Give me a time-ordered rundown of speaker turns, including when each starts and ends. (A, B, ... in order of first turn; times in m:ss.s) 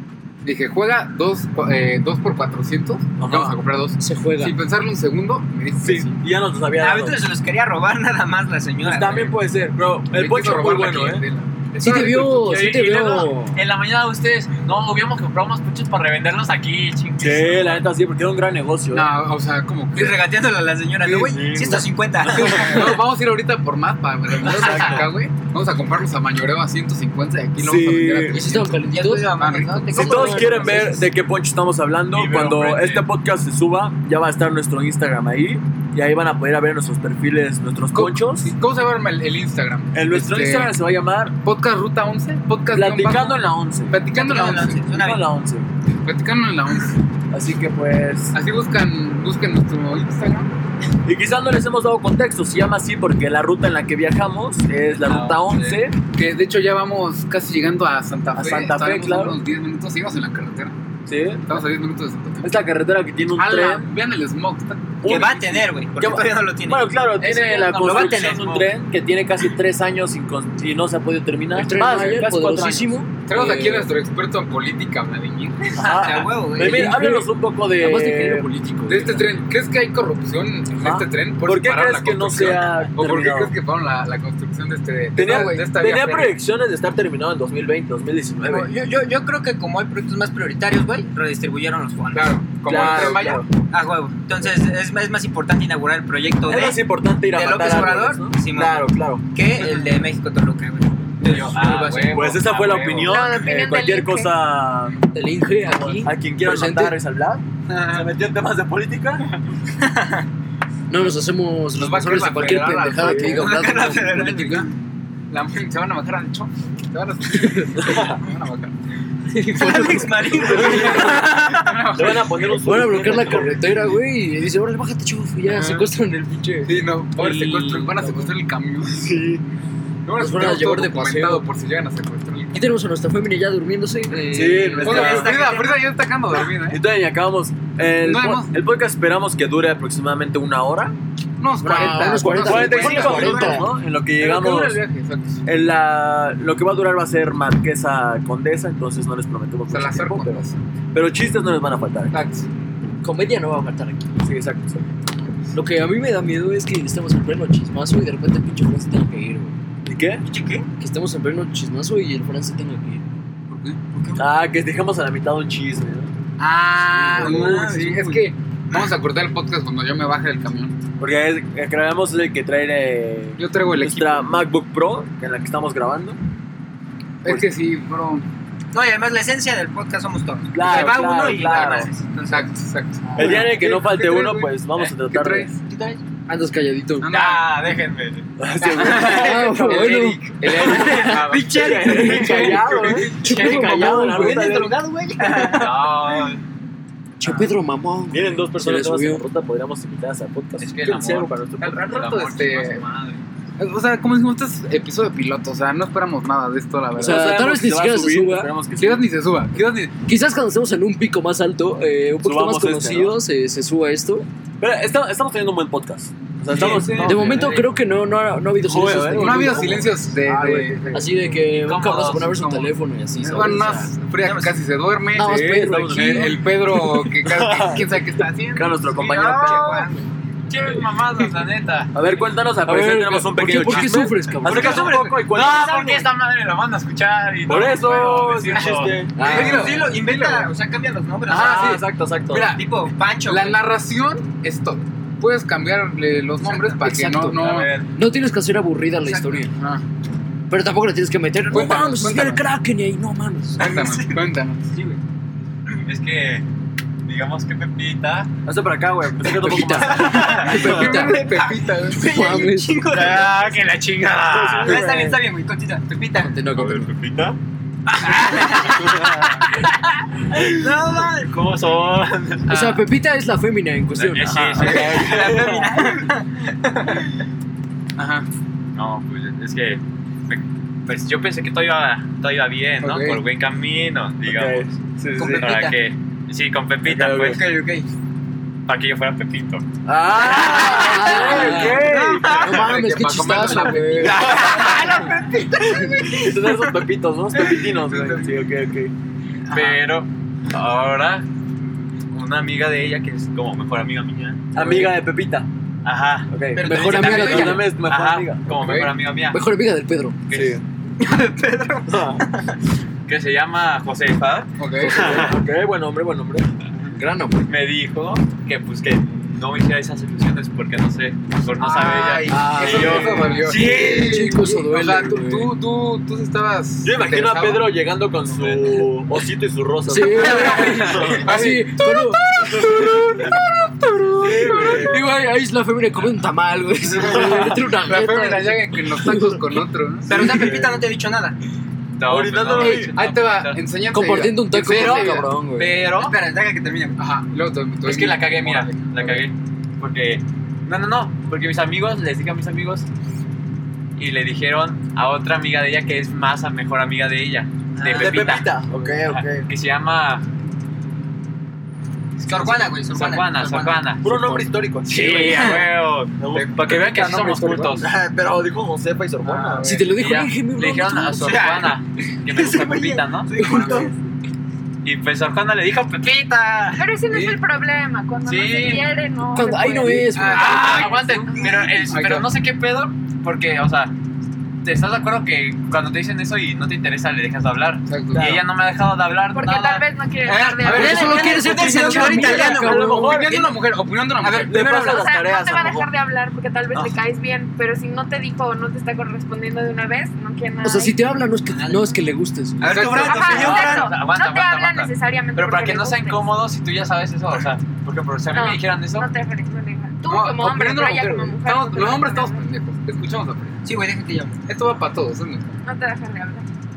0:00.4-0:06.2 A
0:03.2-0:03.6 B
0:04.0-0:04.6 C
0:05.8-0:07.3 B
0:06.8-0:09.4 D
0:08.8-0:11.2 B
0:10.1-0:11.5 A
0:11.8-0:13.6 C
0:11.8-0:17.8 E
0:17.2-0:19.1 B
0:18.9-0:20.2 A
0:19.9-0:22.9 D
0:21.0-0:28.8 A
0:21.3-0:22.9 B
0:24.4-0:25.1 B
0:27.6-0:28.4 B
0:28.3-0:31.0 C
0:28.8-0:31.0 D
0:29.4-0:30.0 A
0:29.9-0:38.5 B
0:32.1-0:33.1 E
0:37.9-0:40.7 A
0:39.9-0:41.4 B
0:41.4-0:44.8 A
0:42.7-0:44.0 B
0:44.1-0:45.2 D
0:44.8-0:45.7 B
0:46.0-0:47.0 A
0:47.3-0:48.4 B
0:48.3-0:50.5 A
0:51.0-0:56.0 B
0:55.0-0:55.7 E
0:56.1-1:00.7 A
0:58.3-0:59.4 B
1:01.1-1:01.6 B
1:01.4-1:02.5 A
1:02.4-1:03.9 B
1:03.4-1:05.4 A
1:05.0-1:13.0 B
1:05.0-1:06.9 D
1:07.2-1:08.7 E
1:07.6-1:08.5 D
1:11.5-1:13.9 C
1:13.3-1:15.8 A
1:15.7-1:18.5 B
1:15.8-1:16.9 D
1:16.6-1:19.4 C
1:18.9-1:26.4 A
1:20.8-1:23.5 B
1:25.2-1:28.7 B
1:28.4-1:41.1 D
1:32.1-1:33.5 A
1:32.6-1:33.5 B
1:36.4-1:39.2 B
1:41.2-1:43.3 E
1:41.2-1:42.0 A
1:42.0-1:45.0 B
1:43.0-1:44.3 F
1:45.1-1:47.0 C
1:45.6-1:49.2 B
1:47.7-1:48.0 D
1:49.7-1:50.3 D
1:50.9-1:54.3 C
1:51.7-1:54.7 A
1:53.0-1:53.4 B
1:53.2-1:54.7 D
1:55.3-1:58.7 A
1:57.3-1:57.7 C
1:57.8-1:58.2 B
1:59.3-2:01.2 C
1:59.5-2:01.8 D
2:00.4-2:03.8 B
2:00.5-2:02.4 A
2:02.5-2:08.3 C
2:05.4-2:05.9 A
2:06.6-2:09.1 A
2:08.9-2:09.4 B
2:10.0-2:12.6 A
2:10.2-2:11.5 C
2:12.5-2:15.2 C
2:14.3-2:15.3 B
2:14.8-2:16.8 A
2:14.8-2:15.9 D
2:16.6-2:21.0 B
2:18.0-2:18.5 A
2:21.4-2:23.5 A
2:21.6-2:23.7 C
2:22.1-2:24.8 B
2:22.8-2:23.6 D
2:24.1-2:25.4 A
2:25.4-2:30.4 B
2:29.7-2:30.6 A
2:30.9-2:32.1 B
2:32.1-2:32.5 A
2:33.0-2:34.2 C
2:34.2-2:34.8 B
2:35.5-2:39.6 C
2:39.8-2:40.2 B
2:40.2-2:40.6 D
2:40.8-2:43.0 C
2:43.5-2:43.8 A
2:43.9-2:44.2 D
2:44.2-2:46.1 B
2:46.4-2:50.8 A
2:47.0-2:47.7 B
2:47.1-2:48.9 D
2:51.0-2:56.2 B
2:53.4-2:54.4 A
2:57.2-2:58.2 A
2:58.7-3:02.5 D
3:00.5-3:01.9 B
3:00.6-3:05.6 A
3:03.2-3:05.5 B
3:05.6-3:06.0 D
3:06.3-3:07.1 C
3:07.0-3:07.6 A
3:07.0-3:08.2 E
3:08.4-3:10.0 B
3:08.6-3:16.3 D
3:08.7-3:11.7 A
3:08.8-3:14.5 C
3:11.5-3:14.8 B
3:15.3-3:16.4 E
3:17.2-3:19.2 C
3:17.2-3:17.5 A
3:18.1-3:22.0 B
3:20.6-3:23.2 E
3:21.6-3:22.8 A
3:23.6-3:27.4 A
3:27.0-3:28.5 C
3:27.0-3:29.1 B
3:28.8-3:29.9 A
3:30.0-3:34.3 C
3:32.2-3:33.2 B
3:34.6-3:37.7 B
3:36.6-3:37.1 A
3:36.6-3:37.0 D
3:36.8-3:37.1 E
3:36.9-3:43.9 C
3:38.6-3:39.7 B
3:39.2-3:41.3 A
3:41.5-3:42.4 E
3:42.4-3:48.7 A
3:44.2-3:44.6 D
3:45.1-3:46.4 C
3:45.2-3:46.4 B
3:47.2-3:47.8 B
3:48.5-3:49.9 B
3:48.8-3:50.1 D
3:49.5-3:49.8 A
3:50.5-3:52.0 E
3:51.9-3:55.7 B
3:52.6-3:54.9 C
3:54.4-3:56.1 D
3:54.5-3:59.0 E
3:57.5-3:59.2 B
3:59.2-3:59.8 C
3:59.2-4:00.5 A
3:59.2-4:01.7 D
4:01.3-4:02.6 A
4:01.3-4:02.5 B
4:02.4-4:03.6 D
4:03.2-4:07.8 A
4:06.7-4:09.5 C
4:07.4-4:07.9 E
4:09.0-4:09.5 D
4:09.5-4:09.8 A
4:10.5-4:13.6 C
4:11.5-4:12.4 A
4:13.6-4:14.7 A
4:13.6-4:15.0 D
4:15.8-4:16.4 E
4:17.0-4:18.3 E
4:18.4-4:20.7 B
4:19.3-4:21.2 C
4:19.8-4:23.5 D
4:20.1-4:22.4 A
4:22.0-4:22.8 C
4:22.9-4:24.8 E
4:24.4-4:25.1 B
4:24.6-4:26.3 D
4:26.2-4:26.9 C
4:26.6-4:27.4 E
4:28.0-4:29.1 D
4:28.4-4:29.1 E
4:30.3-4:31.3 D
4:30.7-4:32.5 E
4:32.5-4:34.4 C
4:32.5-4:32.8 A
4:33.9-4:35.5 E
4:34.2-4:35.8 B
4:34.6-4:37.2 D
4:38.0-4:38.2 A
4:38.7-4:47.4 E
4:42.8-4:43.2 A
4:44.2-4:45.5 B
4:45.2-4:45.8 D
4:46.8-4:47.4 B
4:47.2-4:47.9 D
4:48.7-4:49.6 E
4:49.8-4:52.4 B
4:50.4-4:52.7 D
4:50.4-4:54.3 C
4:51.3-4:51.7 E
4:51.4-4:51.7 A
4:52.5-4:55.0 A
4:54.0-4:56.8 D
4:54.3-4:54.8 E
4:56.0-4:58.9 B
4:57.8-4:58.3 A
4:59.5-4:59.8 A
4:59.5-5:01.2 E
5:02.1-5:04.9 E
5:04.5-5:05.5 B
5:05.8-5:09.4 E
5:06.3-5:08.5 B
5:06.6-5:07.3 D
5:06.6-5:07.7 C
5:08.5-5:08.9 A
5:09.3-5:10.2 C
5:10.3-5:10.6 E
5:10.3-5:10.6 B
5:11.0-5:12.5 D
5:11.9-5:12.2 B
5:13.1-5:15.4 E
5:14.6-5:15.2 A
5:14.9-5:16.5 B
5:17.0-5:17.5 C
5:17.5-5:24.4 E
5:21.6-5:27.7 A
5:22.3-5:25.5 C
5:26.8-5:31.3 B
5:28.4-5:28.7 E
5:29.9-5:39.6 C
5:30.3-5:33.4 A
5:34.2-5:35.0 B
5:34.2-5:34.9 A
5:37.0-5:40.5 A
5:40.0-5:41.4 D
5:40.1-5:40.7 B
5:42.0-5:43.6 E
5:42.1-5:42.9 B
5:42.6-5:45.3 A
5:43.9-5:45.8 C
5:44.7-5:46.1 E
5:44.7-5:47.0 D
5:47.0-5:49.2 A
5:47.8-5:52.9 E
5:54.0-6:00.2 E
5:57.8-5:58.2 D
5:57.8-5:59.5 B
6:02.2-6:03.8 D
6:02.3-6:07.9 E
6:04.0-6:05.6 B
6:05.2-6:05.6 D
6:06.2-6:06.5 B
6:06.3-6:07.8 A
6:07.7-6:09.7 B
6:09.2-6:10.0 A
6:09.6-6:11.5 C
6:09.9-6:13.3 E
6:11.2-6:11.8 D
6:12.3-6:13.9 D
6:13.3-6:13.9 B
6:13.4-6:13.9 C
6:13.4-6:13.9 A
6:14.8-6:16.7 E
6:16.0-6:16.8 D
6:16.8-6:21.5 F
6:17.1-6:17.4 A
6:18.2-6:18.8 E
6:19.3-6:20.9 C
6:20.1-6:20.9 A
6:20.2-6:23.9 E
6:21.3-6:21.7 D
6:21.9-6:22.3 A
6:24.6-6:29.9 E
6:27.9-6:28.3 A
6:28.1-6:28.4 B
6:29.3-6:31.5 F
6:30.3-6:33.5 D
6:30.3-6:34.7 A
6:30.7-6:33.2 C
6:32.0-6:33.5 B
6:34.2-6:35.0 D
6:34.4-6:35.9 B
6:34.8-6:41.0 F
6:40.6-6:42.9 C
6:41.6-6:41.8 D
6:42.6-6:43.9 D
6:42.6-6:43.4 A
6:43.0-6:46.3 F
6:43.0-6:49.1 E
6:48.3-6:52.4 F
6:50.0-6:53.6 A
6:53.6-6:54.4 D
6:54.5-6:55.6 A
6:55.6-6:56.4 F